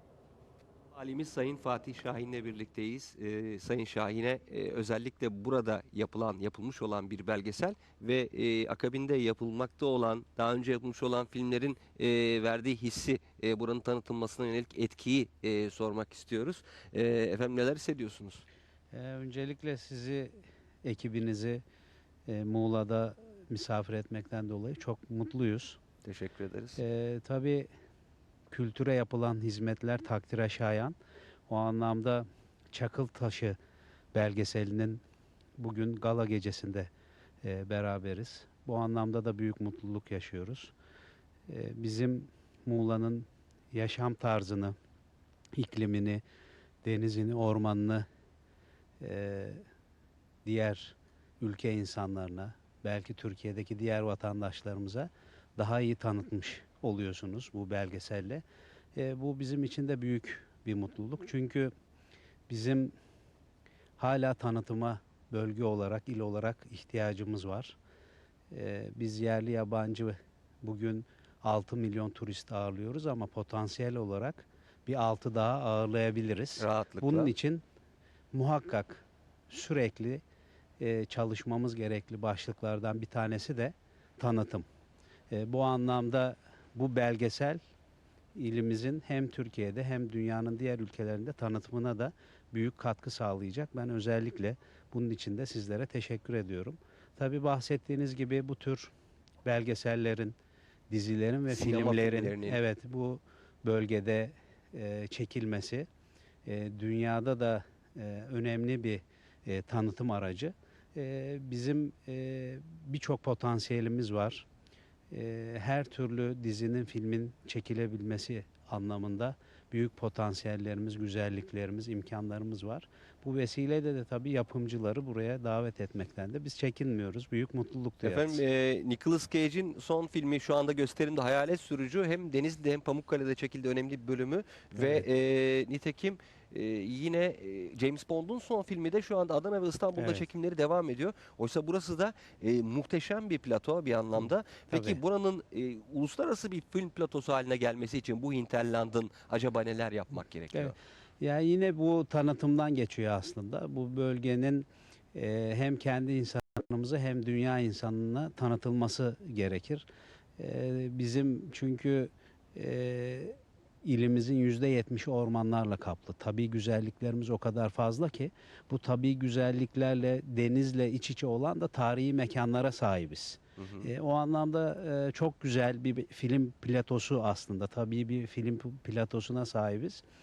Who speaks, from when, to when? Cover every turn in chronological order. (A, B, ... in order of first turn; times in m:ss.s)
0:01.0-0:18.4 A
0:18.9-0:21.6 B
0:22.3-0:25.8 B
0:26.0-0:26.8 A
0:26.8-0:27.7 B
0:28.5-0:31.0 B
0:31.5-0:33.6 B
0:34.1-0:35.0 B
0:35.6-0:36.9 B
0:37.4-0:40.7 B
0:41.5-0:44.8 B
0:45.5-0:46.2 B
0:46.8-0:48.1 B
0:49.0-0:49.6 B
0:50.4-0:58.4 B
0:59.0-1:01.7 B
1:02.5-1:02.9 B
1:04.0-1:07.8 B
1:08.5-1:17.6 B
1:16.6-1:17.3 A
1:18.3-1:20.2 B
1:20.8-1:24.7 B
1:25.3-1:27.6 B
1:28.4-1:38.9 B
1:39.4-1:40.4 B
1:40.9-1:45.9 B
1:41.5-1:42.6 A
1:46.4-1:54.5 B
1:55.1-2:08.4 B
2:08.0-2:30.8 A
2:14.8-2:15.1 B
2:20.0-2:20.3 B
2:24.2-2:25.0 B
2:30.5-2:39.9 B
2:40.4-3:00.0 B
2:53.6-2:53.9 A